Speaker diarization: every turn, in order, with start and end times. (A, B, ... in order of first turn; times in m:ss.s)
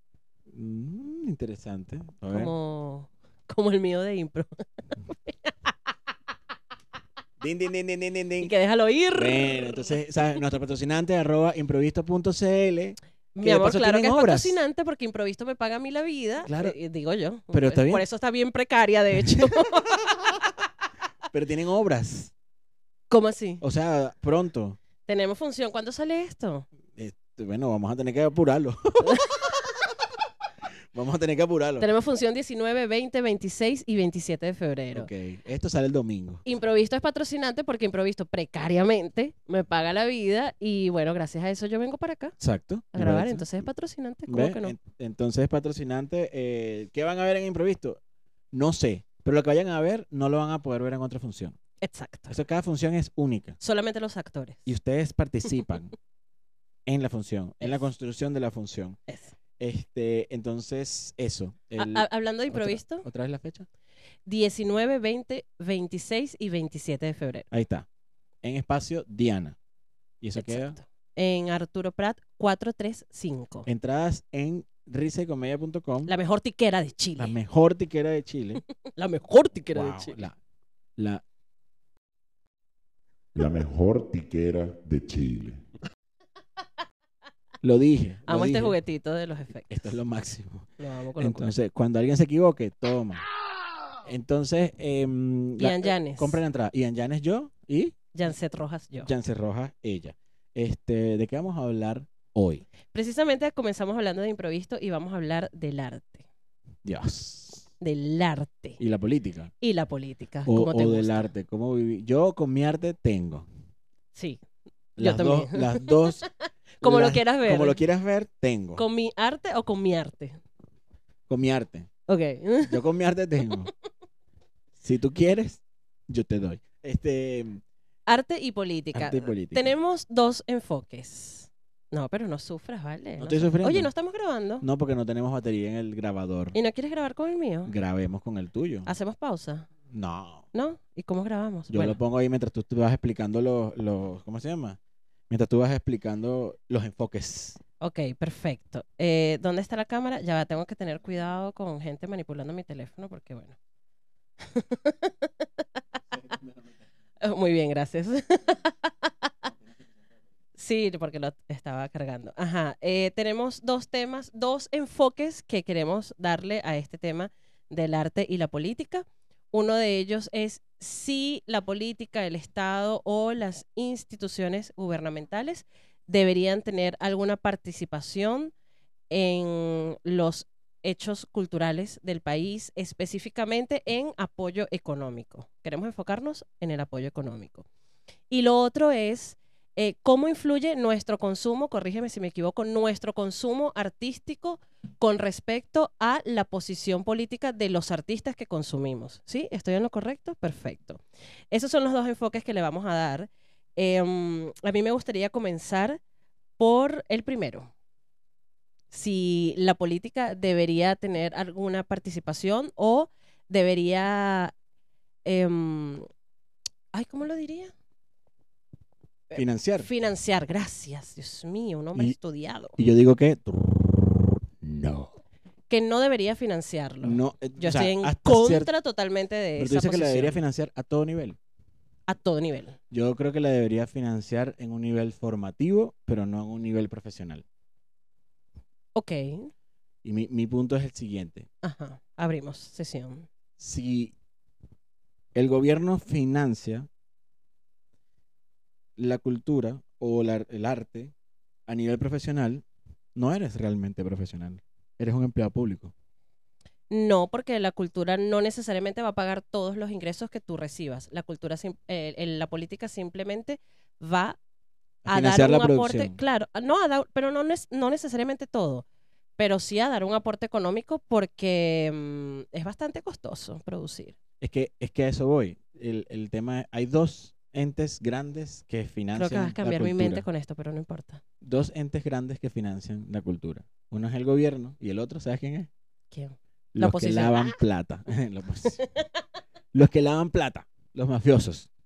0:00.5-0:02.5 A
0:02.3-0:05.7 B
0:07.4-0:08.5 A
0:08.4-0:09.9 B
0:09.1-0:14.6 A
0:13.3-0:20.0 B
0:16.4-0:16.7 A
0:17.5-0:18.0 A
0:19.1-0:20.4 A
0:21.3-0:22.3 A
0:23.1-0:23.6 B
0:23.6-0:24.8 A
0:25.0-0:26.6 B
0:27.0-0:29.9 A
0:30.9-0:31.9 A
0:31.8-0:35.1 B
0:34.9-0:36.4 A
0:36.4-0:42.4 B
0:42.4-0:43.5 A
0:42.9-0:44.8 B
0:44.3-0:48.0 A
0:48.5-0:51.6 A
0:51.8-0:52.3 B
0:52.3-0:53.6 A
0:53.6-0:54.7 B
0:54.6-0:55.9 A
0:56.8-0:59.0 A
0:59.1-0:59.3 B
0:59.6-1:03.7 A
1:01.8-1:03.0 B
1:04.2-1:07.5 B
1:07.5-1:07.8 A
1:08.4-1:09.6 A
1:10.2-1:10.8 A
1:10.4-1:13.7 B
1:13.7-1:16.1 A
1:16.0-1:17.4 B
1:17.2-1:18.6 A
1:18.8-1:20.2 B
1:19.7-1:20.4 A
1:21.0-1:21.2 A
1:23.3-1:25.6 C
1:27.6-1:28.8 A
1:28.3-1:29.9 B
1:29.7-1:33.2 A
1:30.8-1:31.5 B
1:34.0-1:38.0 A
1:35.6-1:36.4 B
1:38.1-1:39.1 B
1:39.0-1:42.6 A
1:42.9-1:46.2 B
1:46.8-1:47.7 A
1:47.8-1:48.8 B
1:48.8-1:49.5 A
1:49.6-1:51.3 B
1:50.4-1:53.5 A
1:54.1-1:54.4 B
1:55.0-1:56.2 A
1:55.0-1:57.8 B
1:56.8-1:58.8 A
1:58.8-2:00.4 B
2:01.3-2:01.9 A
2:02.1-2:02.8 B
2:02.6-2:03.7 A
2:04.8-2:07.6 A
2:08.1-2:14.6 B
2:08.9-2:09.7 A
2:13.2-2:13.9 A
2:14.6-2:16.6 A
2:16.5-2:17.7 B
2:17.6-2:18.9 A
2:18.8-2:19.7 B
2:19.9-2:20.4 A
2:20.5-2:22.0 B
2:21.7-2:24.8 A
2:25.3-2:27.6 A
2:27.8-2:33.6 B
2:34.4-2:35.6 B
2:37.2-2:39.5 B
2:40.6-2:58.5 B
2:59.1-3:07.7 B
3:08.3-3:21.0 B
3:21.5-3:26.0 B
3:26.6-3:27.7 B
3:28.9-3:34.5 B
3:35.2-3:36.1 B
3:36.9-3:37.7 B
3:39.3-3:42.8 B
3:39.3-3:39.9 A
3:42.8-3:45.1 A
3:45.7-3:50.4 B
3:47.0-3:48.7 A
3:49.6-3:51.4 A
3:52.1-3:52.8 B
3:52.9-3:57.4 A
3:58.9-3:59.5 B
4:00.0-4:01.5 A
4:01.6-4:03.3 B
4:03.6-4:04.1 A
4:05.3-4:06.9 A
4:09.0-4:11.1 A
4:11.7-4:12.6 A
4:13.1-4:15.9 A
4:16.9-4:24.4 B
4:25.0-4:26.2 A
4:25.1-4:28.8 B
4:29.4-4:34.2 B
4:34.4-4:40.2 A
4:39.1-4:41.2 B
4:41.4-4:45.7 A
4:46.1-4:47.6 B
4:46.7-4:48.8 A
4:49.7-4:51.7 A